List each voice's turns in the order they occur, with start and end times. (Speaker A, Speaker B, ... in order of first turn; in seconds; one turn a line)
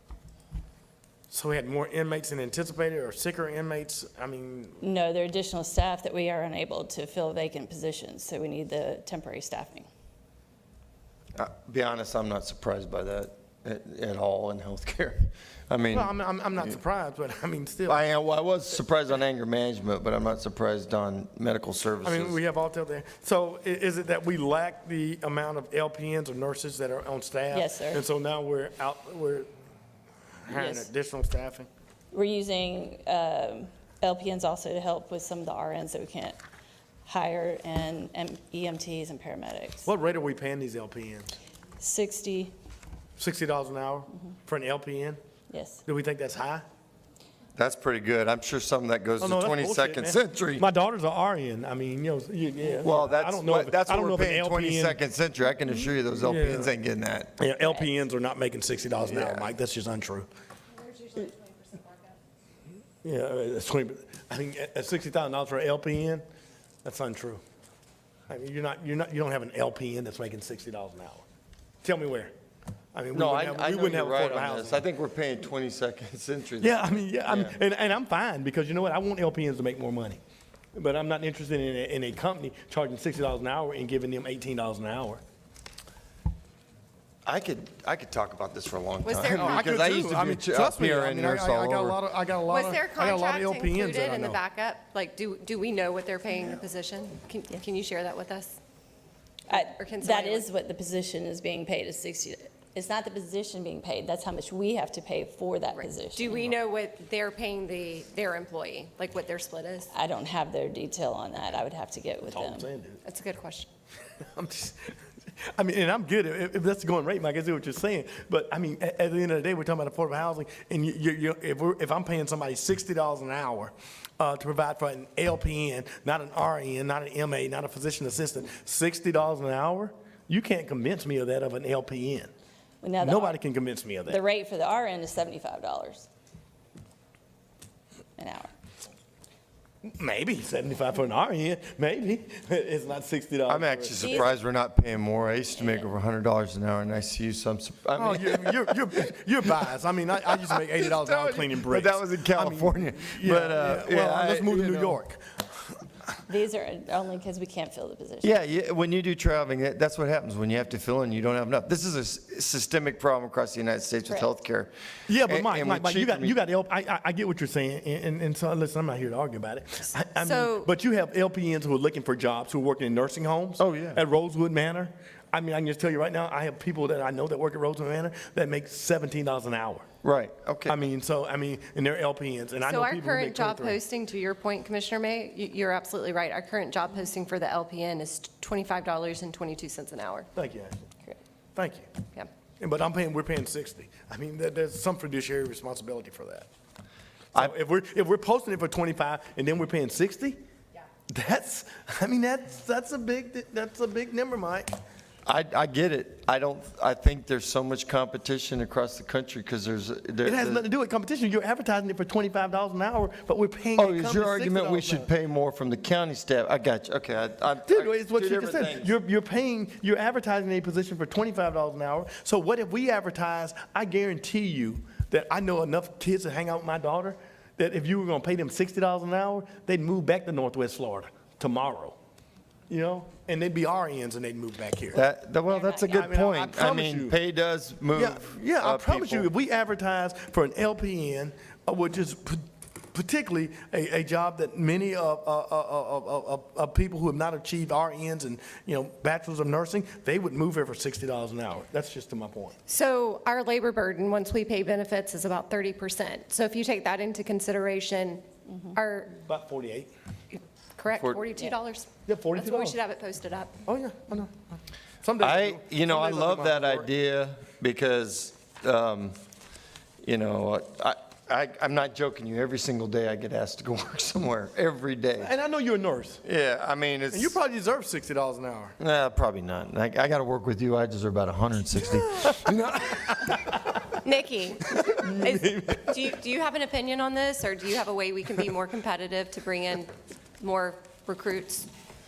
Speaker A: 1.3-4.8
Speaker B: 4.8-9.9
Speaker C: 11.3-16.8
Speaker A: 15.9-18.0
Speaker C: 17.9-22.4
Speaker A: 22.0-29.5
Speaker B: 27.5-28.0
Speaker A: 30.4-31.7
Speaker B: 30.5-30.9
Speaker B: 32.1-36.4
Speaker B: 37.1-39.9
Speaker A: 39.9-41.3
Speaker B: 41.8-42.5
Speaker A: 43.2-45.2
Speaker B: 45.5-45.8
Speaker A: 45.9-46.6
Speaker C: 47.6-50.7
Speaker A: 49.2-55.0
Speaker C: 52.8-57.3
Speaker A: 56.2-56.7
Speaker A: 57.4-60.3
Speaker B: 57.6-57.9
Speaker C: 59.0-59.5
Speaker D: 60.7-62.2
Speaker A: 63.0-66.2
Speaker A: 66.8-67.4
Speaker A: 68.3-71.2
Speaker A: 71.8-72.3
Speaker A: 72.9-74.8
Speaker C: 73.1-77.6
Speaker A: 76.6-80.2
Speaker A: 80.7-85.2
Speaker C: 87.2-92.0
Speaker D: 89.0-89.8
Speaker A: 89.3-94.4
Speaker D: 92.5-98.6
Speaker D: 99.5-100.5
Speaker B: 99.5-106.5
Speaker D: 105.7-109.9
Speaker B: 109.9-112.7
Speaker A: 112.3-113.0
Speaker D: 113.0-113.7
Speaker A: 114.2-115.0
Speaker A: 115.5-132.3
Speaker B: 132.8-133.4
Speaker A: 133.0-134.2
Speaker B: 134.1-136.1
Speaker B: 138.2-138.5
Speaker A: 139.8-144.3
Speaker C: 143.5-148.8
Speaker B: 144.0-144.3
Speaker B: 145.6-145.9
Speaker A: 147.9-155.8
Speaker C: 150.4-155.0
Speaker B: 156.3-158.3
Speaker C: 158.2-166.4
Speaker A: 165.1-179.9
Speaker D: 170.2-170.7
Speaker C: 173.6-174.0
Speaker C: 180.0-180.8
Speaker A: 180.7-183.8
Speaker D: 182.6-190.3
Speaker A: 190.4-190.8
Speaker A: 191.6-191.9
Speaker A: 192.6-196.5
Speaker A: 197.3-200.4
Speaker A: 201.1-204.7
Speaker C: 205.3-210.7
Speaker A: 210.2-215.1
Speaker C: 213.8-218.9
Speaker A: 217.7-232.0
Speaker A: 232.7-235.0
Speaker C: 234.9-239.3
Speaker B: 235.5-236.1
Speaker A: 235.9-237.2
Speaker A: 238.0-252.6
Speaker D: 252.7-259.1
Speaker A: 259.1-259.9
Speaker D: 260.8-263.6
Speaker C: 260.9-261.2
Speaker A: 262.1-262.8
Speaker A: 263.7-266.9
Speaker C: 265.2-269.2
Speaker C: 270.0-275.3
Speaker A: 275.2-276.2
Speaker C: 276.2-277.4
Speaker A: 277.1-278.8
Speaker C: 278.8-283.4
Speaker A: 282.2-284.0
Speaker D: 284.0-291.7
Speaker A: 285.0-285.9